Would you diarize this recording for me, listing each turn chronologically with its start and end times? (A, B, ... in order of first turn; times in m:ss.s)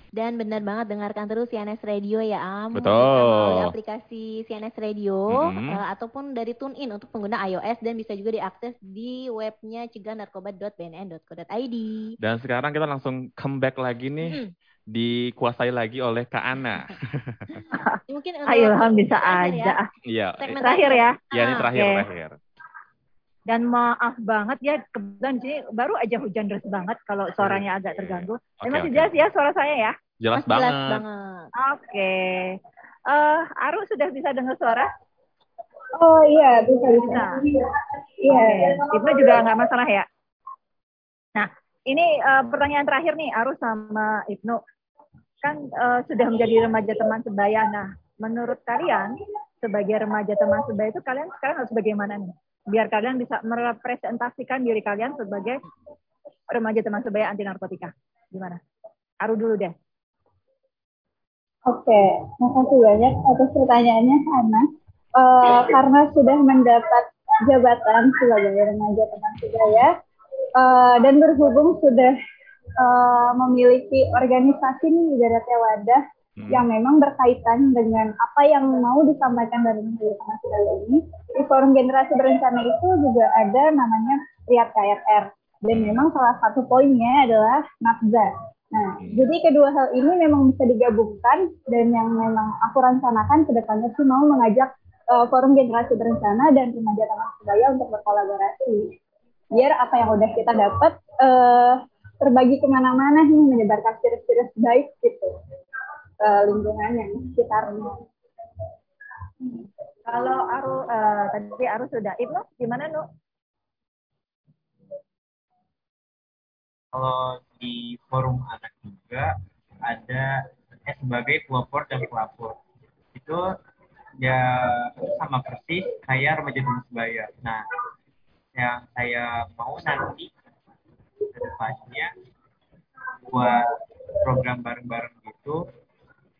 0:00.2-0:12.1 A
0:02.7-0:03.7 B
0:05.3-0:05.8 B
0:12.2-0:14.4 B
0:14.9-0:17.6 B
0:17.7-0:19.9 C
0:18.1-0:19.8 A
0:20.1-0:20.8 B
0:20.4-0:21.6 A
0:20.6-0:21.2 C
0:21.3-0:22.4 B
0:21.7-0:22.0 C
0:23.5-0:30.0 C
0:27.4-0:29.1 B
0:30.2-0:31.0 B
0:30.3-0:31.5 A
0:31.6-0:32.6 C
0:33.1-0:34.9 C
0:36.0-0:37.6 D
0:36.7-0:37.4 C
0:38.2-0:39.1 D
0:38.3-0:40.0 C
0:41.4-0:44.6 C
0:45.4-0:55.6 C
0:56.5-0:58.6 C
0:59.2-0:59.7 C
1:01.7-1:09.9 D
1:10.6-1:12.2 D
1:12.8-1:39.0 D
1:16.4-1:16.7 B
1:25.7-1:26.1 B
1:29.0-1:29.3 B
1:39.6-1:45.3 D
1:46.2-1:48.0 D
1:50.1-1:53.1 C
1:56.9-1:59.3 E
1:59.8-2:02.6 E
2:03.1-2:03.4 E
2:04.2-2:07.6 E
2:08.6-2:10.3 E
2:11.3-2:12.1 E
2:13.2-2:13.7 E
2:14.2-2:15.6 E